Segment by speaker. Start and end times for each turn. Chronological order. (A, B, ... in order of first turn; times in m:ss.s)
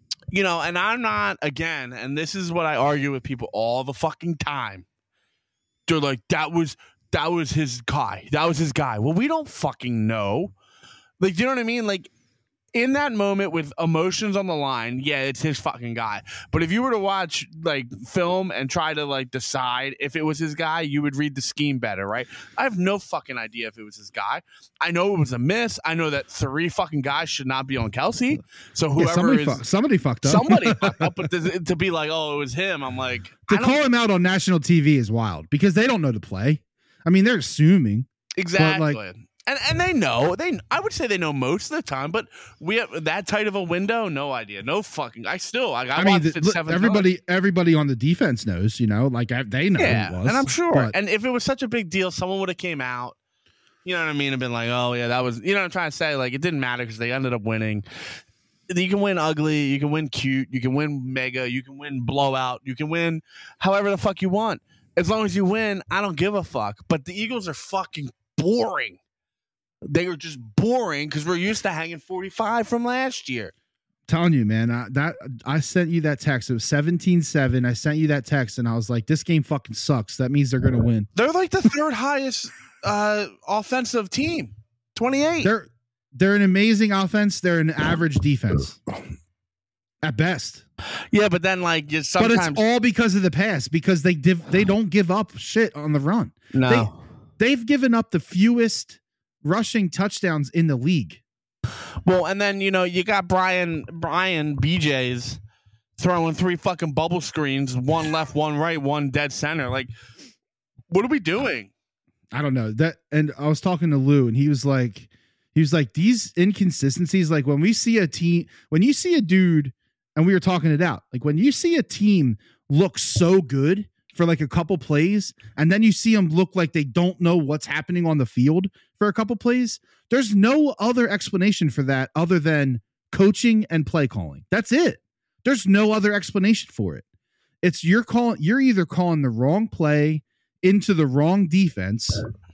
0:00.3-0:04.8 A
0:05.9-0:10.5 A
0:11.2-0:12.1 A
0:12.7-0:29.6 A
0:29.0-0:31.2 B
0:30.2-0:33.8 A
0:33.5-0:39.0 B
0:38.4-0:47.1 A
0:46.0-0:50.9 B
0:49.8-0:53.2 A
0:53.8-0:57.8 A
0:58.7-1:09.0 A
1:09.8-1:13.5 A
1:14.1-1:21.1 B
1:21.2-1:25.5 A
1:25.4-1:28.8 B
1:30.0-1:30.6 B
1:31.1-1:32.6 A
1:32.2-1:41.2 B
1:36.5-1:36.9 A
1:42.0-1:45.4 A
1:46.0-1:49.9 A
1:50.9-1:51.7 A
1:52.3-2:17.0 B
2:17.6-2:22.2 B